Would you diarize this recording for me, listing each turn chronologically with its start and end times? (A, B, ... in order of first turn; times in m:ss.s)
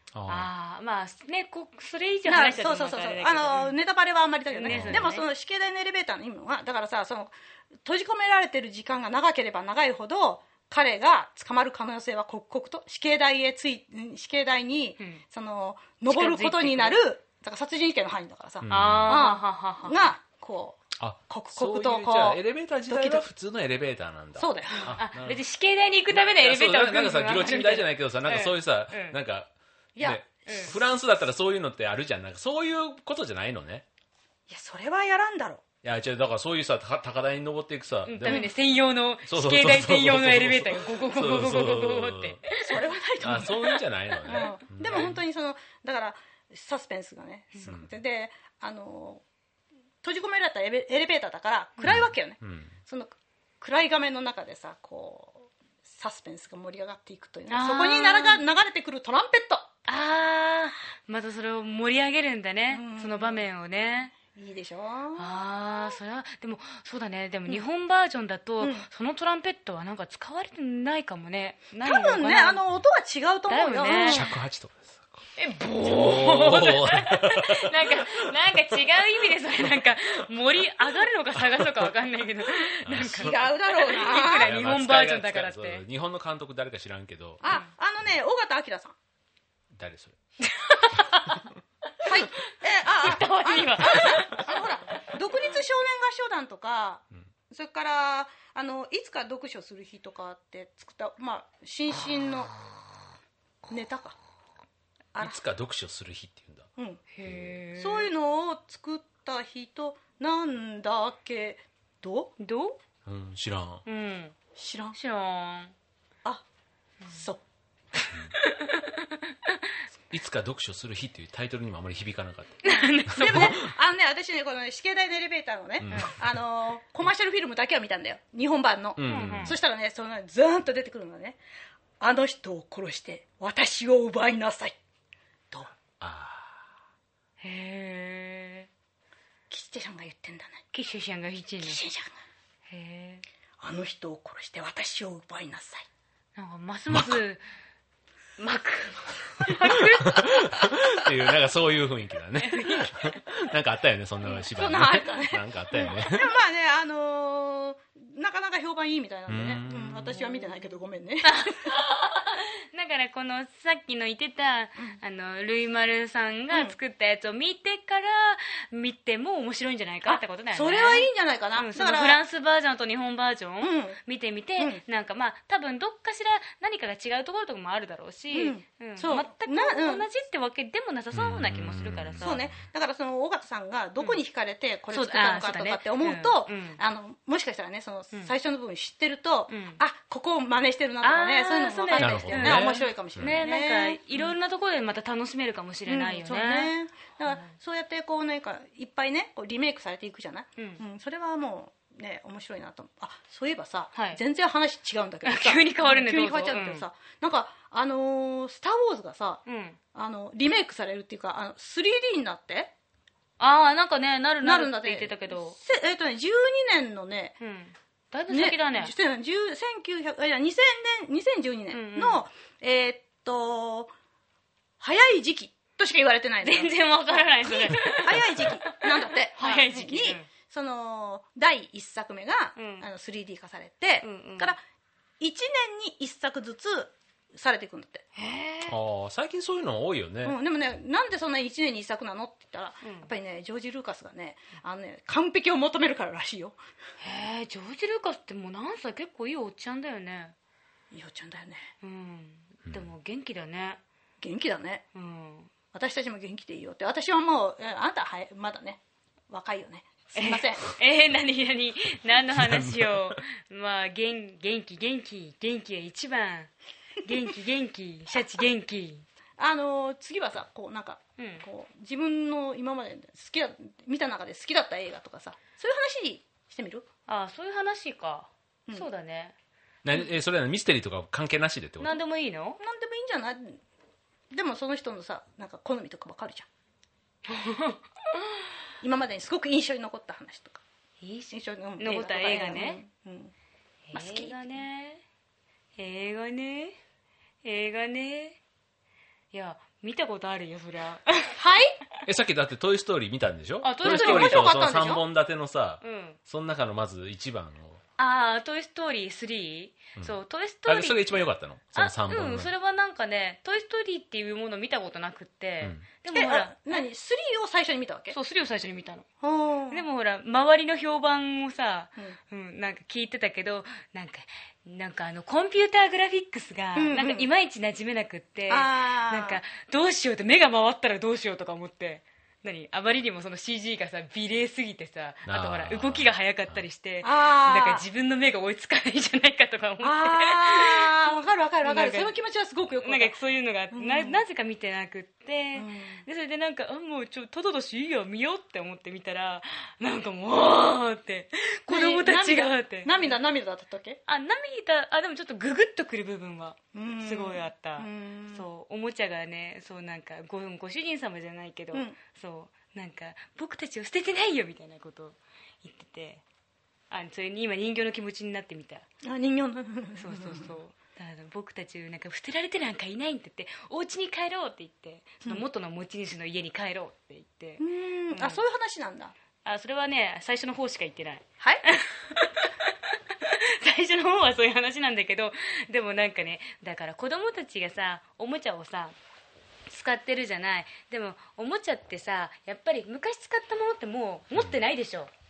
0:00.1-0:00.5 A
0:00.3-0:03.8 B
0:02.2-0:23.2 C
0:04.5-0:05.2 B
0:04.7-0:05.1 A
0:16.1-0:17.0 B
0:18.6-0:19.2 A
0:18.7-0:20.1 B
0:21.0-0:25.4 A
0:24.4-0:25.0 C
0:24.9-0:29.2 B
0:26.1-0:33.8 A
0:29.9-0:30.8 C
0:30.4-0:30.7 B
0:34.5-0:35.6 C
0:35.8-0:38.5 A
0:38.1-0:42.8 B
0:38.2-0:38.5 C
0:39.2-0:42.4 A
0:42.6-0:49.2 C
0:43.2-0:45.2 A
0:44.3-0:45.0 B
0:50.0-0:59.7 C
0:51.8-0:52.0 B
0:51.8-0:52.7 A
0:57.5-0:58.4 B
0:59.9-1:04.1 B
1:02.7-1:03.4 C
1:04.1-1:05.4 C
1:05.2-1:12.6 B
1:08.6-1:08.9 C
1:11.8-1:14.3 C
1:13.5-1:14.2 B
1:14.0-1:15.2 A
1:15.4-1:25.8 B
1:15.8-1:18.1 A
1:21.4-1:21.9 A
1:22.8-1:23.4 A
1:23.0-1:24.5 C
1:24.2-1:27.4 A
1:27.4-1:28.9 C
1:29.7-1:30.2 A
1:30.4-1:31.4 B
1:32.0-1:42.5 C
1:32.9-1:34.6 B
1:43.7-1:44.2 C
1:45.1-1:45.4 C
1:45.2-1:46.7 A
1:46.8-1:47.0 C
1:47.1-1:48.1 B
1:47.8-1:52.3 C
1:52.4-1:52.8 B
1:53.0-1:53.8 A
1:53.8-1:54.3 B
1:54.6-1:55.0 C
1:54.9-1:55.7 B
1:57.1-1:57.4 C
1:58.0-1:59.2 B
2:00.1-2:03.6 A
2:02.6-2:03.6 B
2:03.1-2:11.4 C
2:05.8-2:06.1 A
2:09.0-2:09.6 A
2:09.0-2:09.5 B
2:12.0-2:14.8 C
2:16.0-2:16.6 A
2:17.4-2:18.7 B
2:19.5-2:20.6 C
2:20.7-2:21.8 B
2:21.6-2:22.2 C
2:22.7-2:23.2 B
2:23.6-2:25.8 C
2:26.4-2:27.4 B
2:26.9-2:27.2 A
2:28.4-2:30.5 B
2:29.6-2:36.3 A
2:32.4-2:33.2 B
2:34.4-2:41.8 C
2:39.3-2:40.1 A
2:41.2-3:02.4 B
2:46.5-2:46.8 C
2:50.0-2:52.2 C
2:53.6-2:54.0 C
2:58.3-3:00.0 C
3:01.1-3:02.4 A
3:02.2-3:14.3 C
3:04.9-3:06.8 B
3:09.5-3:09.8 B
3:11.0-3:16.7 B
3:12.0-3:13.4 A
3:15.9-3:29.4 C
3:17.2-3:17.5 B
3:24.0-3:24.2 B
3:25.2-3:26.8 B
3:29.5-3:29.8 B
3:29.9-3:32.7 C
3:33.4-3:35.6 B
3:34.4-3:37.4 C
3:37.4-3:38.9 B
3:38.3-3:43.9 C
3:41.7-3:42.2 B
3:44.8-3:54.6 C
3:46.4-3:50.3 B
3:52.6-3:52.9 B
3:54.0-3:54.5 B
3:55.2-3:58.0 C
3:58.2-3:58.8 B
3:58.6-4:00.4 A
4:00.2-4:06.6 C
4:02.8-4:03.1 B
4:07.0-4:10.3 B
4:10.9-4:11.6 C
4:11.8-4:13.8 B
4:14.2-4:14.8 C
4:14.9-4:15.5 B
4:15.7-4:20.8 C
4:20.1-4:26.5 B
4:22.3-4:23.2 A
4:27.0-4:29.0 B
4:29.4-4:36.8 C
4:31.2-4:31.4 B
4:37.1-4:39.3 B
4:39.8-4:42.0 A
4:41.8-4:42.6 B
4:42.6-4:43.6 C
4:44.3-4:46.5 C
4:47.3-4:48.2 B
4:48.8-4:50.6 C
4:51.0-4:52.8 B
4:51.3-4:53.3 C
4:53.9-4:55.0 B
4:53.9-4:54.4 C
4:55.8-4:56.8 B
4:57.4-4:58.4 B
4:59.3-5:01.4 B
5:01.4-5:01.8 C
5:02.0-5:07.8 A
5:03.6-5:04.5 B
5:03.8-5:05.0 C
5:05.8-5:06.2 B
5:08.0-5:11.2 B
5:10.0-5:12.5 A
5:11.8-5:16.8 B
5:16.1-5:18.2 C
5:18.1-5:19.0 B
5:19.2-5:19.8 C
5:19.7-5:41.1 B
5:26.8-5:27.3 C
5:28.5-5:29.4 C
5:35.3-5:36.6 A
5:37.0-5:37.8 C
5:39.8-5:43.1 C
5:41.6-5:42.1 B
5:42.8-5:53.1 B
5:43.7-5:44.2 C
5:45.6-5:46.0 C
5:51.7-5:54.0 C
5:54.1-6:06.2 B
5:56.7-5:58.5 C
6:06.9-6:08.8 B
6:09.0-6:10.5 C
6:10.0-6:18.4 B
6:17.6-6:19.1 C
6:19.4-6:29.0 B
6:29.7-6:35.1 B